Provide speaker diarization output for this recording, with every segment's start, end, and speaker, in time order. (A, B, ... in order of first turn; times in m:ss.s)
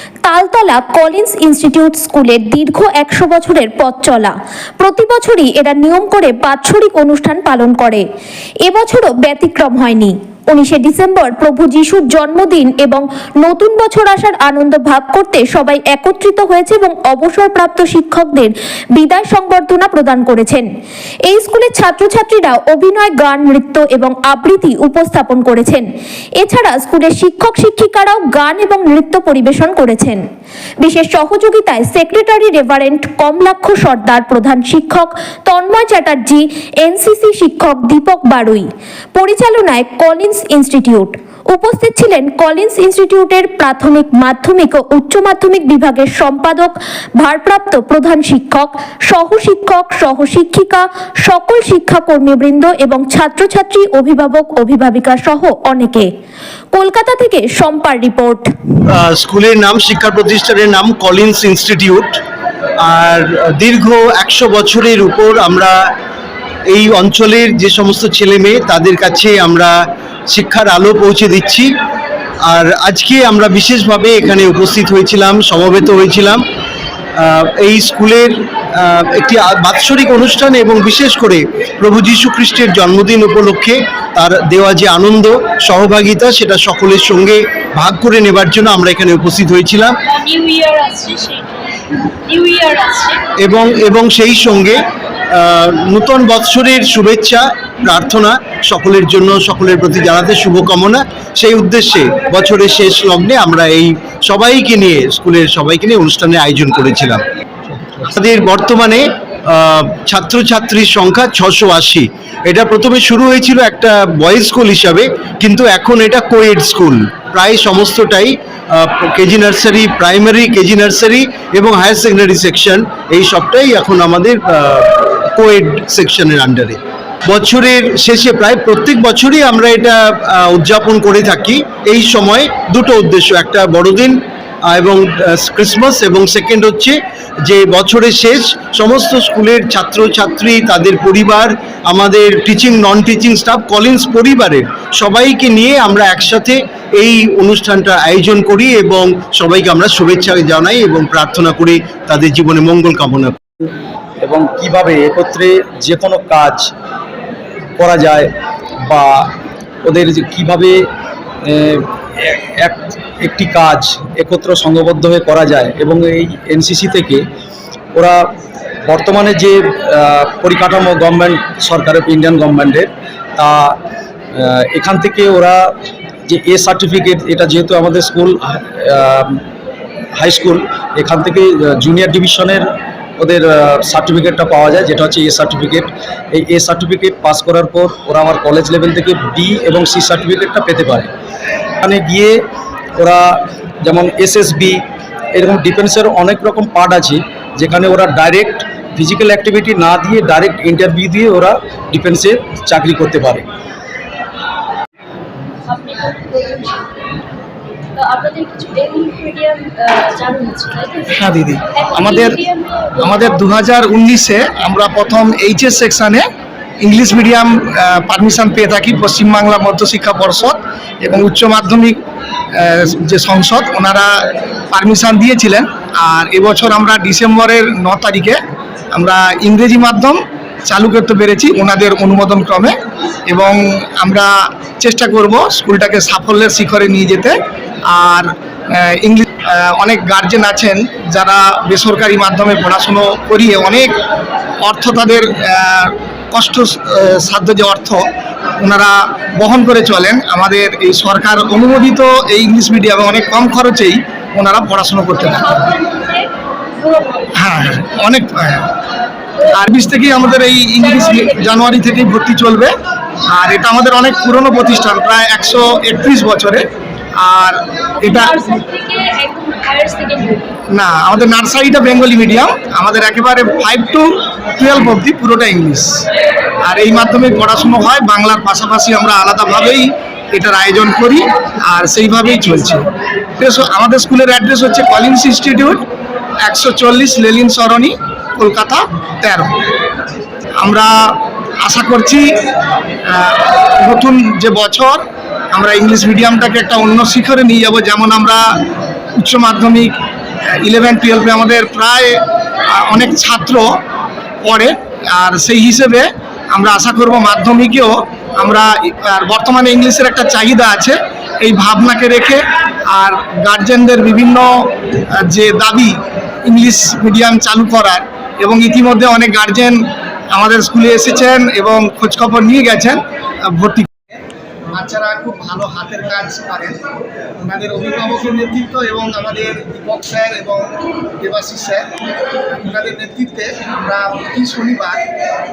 0:00.2-0:08.0 A
0:08.6-0:20.6 A
0:21.3-0:25.8 A
0:26.4-0:30.2 A
0:30.8-0:56.1 A
0:56.7-0:58.5 A
0:58.9-1:02.2 B
1:02.8-1:05.9 B
1:06.7-1:11.7 B
1:12.5-1:16.4 B
1:17.2-1:30.0 B
1:30.0-1:33.3 C
1:33.4-1:47.2 B
1:48.0-2:33.4 B
2:34.2-2:36.7 D
2:37.8-2:38.3 D
2:38.9-2:39.3 D
2:39.8-2:40.8 D
2:41.4-2:47.2 D
2:47.9-2:48.3 D
2:48.9-2:53.8 D
2:54.3-2:55.7 D
2:56.3-2:59.4 D
3:00.2-3:02.6 D
3:03.2-3:11.1 D
3:11.8-3:12.4 D
3:13.0-3:14.8 D
3:15.3-3:23.4 D
3:25.6-3:26.9 C
3:27.9-3:33.7 C
3:31.1-3:32.4 E
3:33.0-3:36.3 E
3:36.8-3:42.0 E
3:42.5-3:48.4 E
3:48.9-3:52.8 E
3:53.3-3:57.4 E
3:57.9-4:04.0 E
4:04.6-4:08.0 E
4:08.6-4:15.7 E
4:15.2-4:17.3 C
4:17.4-4:18.7 E
4:19.5-4:22.7 E
4:20.8-4:21.8 C
4:23.3-4:28.3 E
4:28.0-4:30.5 C
4:30.7-4:36.1 E
4:36.6-4:45.8 E
4:46.4-4:49.6 E
4:50.6-4:52.4 E
4:53.1-4:58.4 E
4:59.2-5:00.0 E
5:00.6-5:03.7 E
5:04.4-5:19.8 E
5:20.3-5:23.9 E
5:24.7-5:26.8 E
5:27.4-5:31.9 E
5:32.5-5:35.1 E